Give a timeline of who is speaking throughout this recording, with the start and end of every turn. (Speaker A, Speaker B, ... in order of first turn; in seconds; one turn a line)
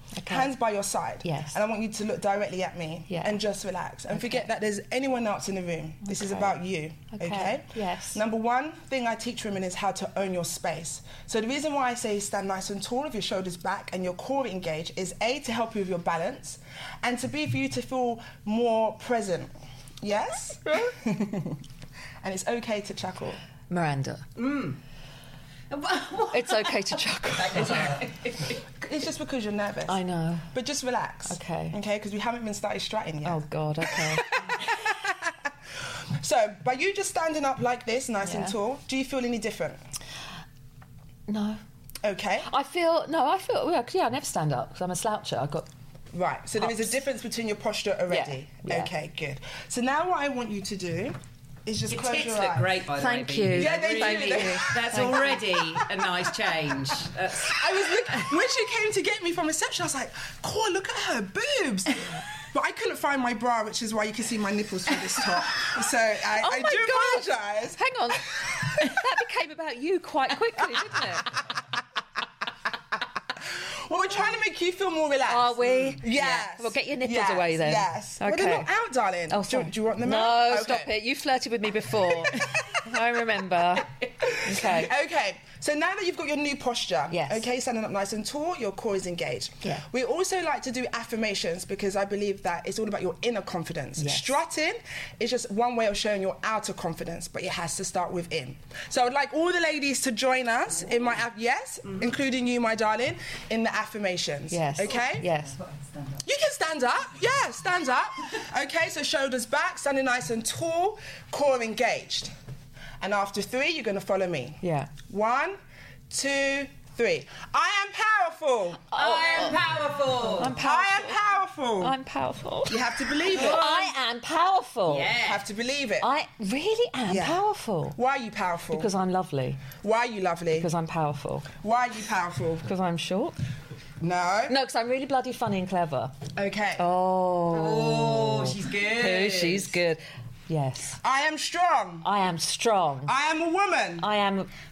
Speaker A: 0.1-0.5
Speaker B: 0.3-21.6
Speaker A: 1.2-1.6
Speaker A: 3.1-3.4
Speaker A: 4.1-4.5
Speaker A: 6.0-6.6
Speaker A: 7.1-8.2
Speaker A: 20.7-20.9
Speaker B: 22.2-23.4
Speaker A: 23.7-24.2
Speaker C: 24.4-24.8
Speaker C: 25.7-28.6
Speaker A: 26.3-28.1
Speaker B: 28.6-30.0
Speaker A: 29.9-30.5
Speaker B: 30.5-39.8
Speaker A: 31.3-31.8
Speaker A: 33.2-34.6
Speaker A: 38.2-38.5
Speaker A: 41.3-41.6
Speaker B: 42.0-42.5
Speaker A: 42.4-45.7
Speaker B: 46.1-52.8
Speaker A: 46.6-46.9
Speaker A: 48.1-48.9
Speaker C: 51.9-58.3
Speaker A: 53.0-55.4
Speaker B: 53.5-69.0
Speaker A: 66.3-71.3
Speaker B: 70.6-71.3
Speaker B: 73.4-80.9
Speaker A: 75.3-78.7
Speaker A: 79.3-84.9
Speaker B: 84.2-105.3
Speaker A: 87.1-87.5
Speaker A: 94.0-94.3
Speaker A: 104.5-105.6
Speaker B: 106.2-112.3
Speaker B: 113.0-115.6
Speaker A: 114.6-114.9
Speaker B: 116.1-118.8
Speaker A: 118.9-119.6
Speaker C: 118.9-120.6
Speaker A: 120.2-121.2
Speaker B: 120.4-122.0
Speaker A: 121.8-125.1
Speaker B: 122.7-123.7
Speaker C: 123.3-123.9
Speaker C: 124.9-125.4
Speaker B: 125.2-126.1
Speaker A: 126.0-128.0
Speaker B: 127.1-127.4
Speaker B: 128.0-128.9
Speaker A: 128.7-129.7
Speaker B: 129.8-130.7
Speaker A: 130.5-131.5
Speaker B: 131.6-132.7
Speaker A: 132.6-133.4
Speaker B: 134.0-134.6
Speaker A: 134.5-136.2
Speaker B: 136.3-136.8
Speaker A: 136.8-141.0
Speaker C: 137.5-139.8
Speaker B: 141.0-142.1
Speaker A: 142.0-143.1
Speaker B: 143.1-144.1
Speaker A: 144.0-144.5